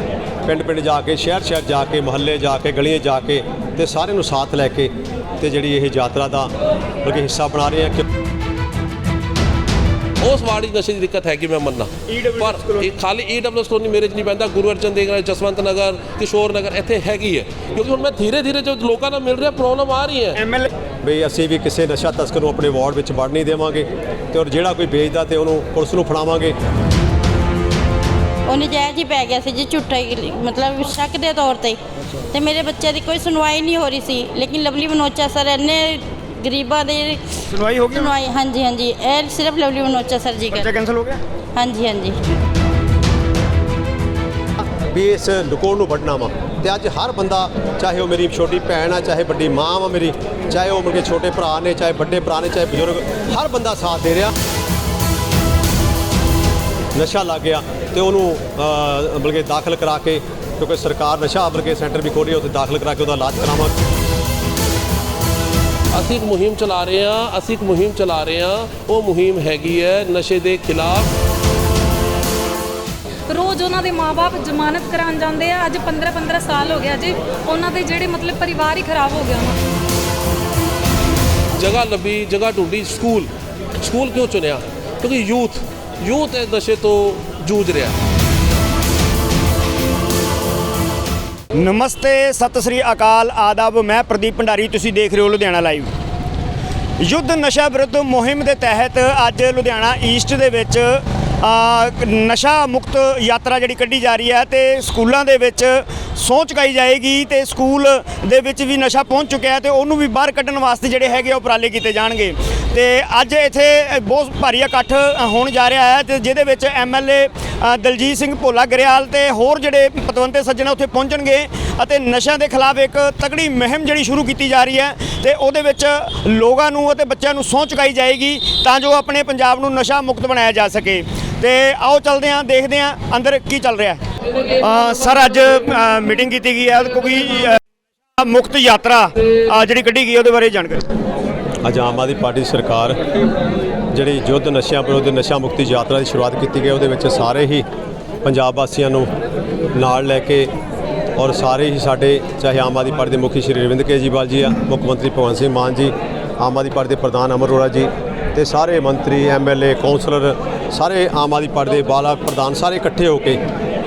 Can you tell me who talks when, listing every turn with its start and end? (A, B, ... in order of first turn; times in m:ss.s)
0:00.4-0:06.5 A
0:07.0-0:08.0 A
0:10.2-0:20.3 B
0:12.1-0:12.9 C
0:20.4-0:20.7 C
0:21.0-0:26.6 A
0:28.5-0:31.8 D
0:32.3-0:37.2 D
0:37.5-0:38.1 C
0:37.9-0:40.7 D
0:40.5-0:41.2 C
0:41.6-0:42.2 D
0:44.8-0:54.3 A
0:57.0-1:03.7 A
1:05.9-1:11.1 B
1:13.3-1:19.6 E
1:21.6-1:28.0 B
1:31.6-1:35.9 C
1:37.0-2:14.0 C
2:14.5-2:17.6 C
2:18.2-2:20.9 C
2:21.6-2:23.0 A
2:23.9-2:27.7 A
2:28.2-2:29.1 A
2:29.7-2:30.5 A
2:31.2-2:43.4 A